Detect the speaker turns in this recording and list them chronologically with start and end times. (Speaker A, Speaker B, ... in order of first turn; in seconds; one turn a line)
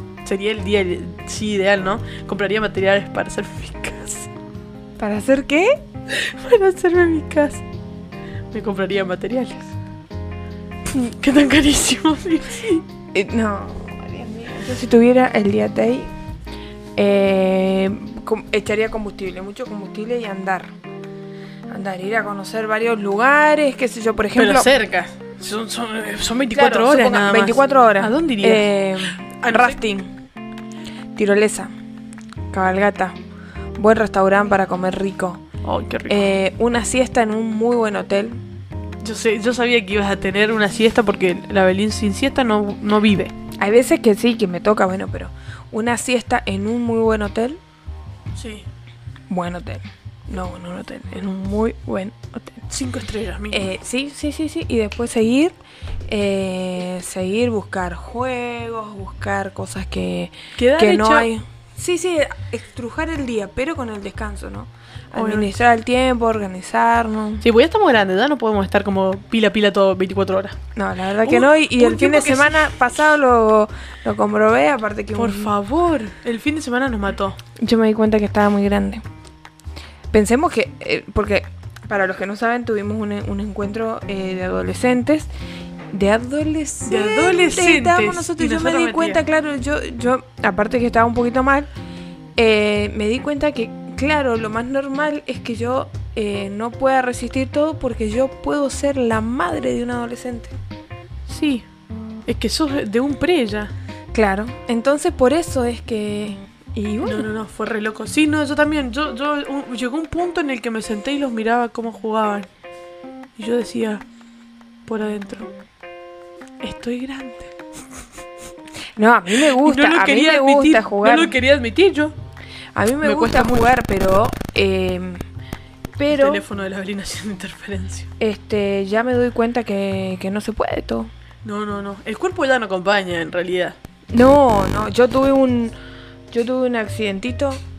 Speaker A: 0.2-4.3
Speaker B: 5.0-5.8
Speaker A: 6.1-7.6
Speaker A: 8.5-9.7
Speaker A: 10.8-12.8
Speaker B: 13.1-16.1
Speaker B: 17.0-20.7
Speaker B: 21.7-24.7
Speaker A: 24.3-29.8
Speaker B: 26.5-30.1
Speaker B: 31.1-31.7
Speaker B: 32.5-33.1
Speaker B: 33.8-35.4
Speaker A: 35.6-36.3
Speaker B: 36.1-38.4
Speaker A: 39.0-43.3
Speaker B: 43.6-47.6
Speaker A: 48.3-48.6
Speaker B: 49.3-52.6
Speaker A: 52.7-53.7
Speaker B: 53.5-55.5
Speaker B: 56.1-67.4
Speaker A: 60.6-61.3
Speaker A: 65.1-65.5
Speaker A: 67.4-70.6
Speaker B: 70.7-75.5
Speaker A: 71.2-72.7
Speaker A: 75.1-77.4
Speaker B: 77.6-79.0
Speaker B: 80.1-85.3
Speaker B: 85.9-91.7
Speaker A: 86.8-89.2
Speaker B: 92.4-100.5
Speaker A: 101.3-101.7
Speaker A: 102.2-103.7
Speaker B: 104.1-107.3
Speaker A: 107.0-112.5
Speaker A: 113.4-114.0
Speaker A: 114.8-115.5
Speaker A: 116.6-117.5
Speaker B: 119.0-121.3
Speaker A: 119.3-122.1
Speaker B: 122.7-125.2
Speaker A: 123.0-123.7
Speaker B: 126.0-126.4
Speaker A: 126.1-128.1
Speaker B: 128.2-131.1
Speaker A: 131.4-133.8
Speaker B: 134.1-135.7
Speaker B: 136.3-137.6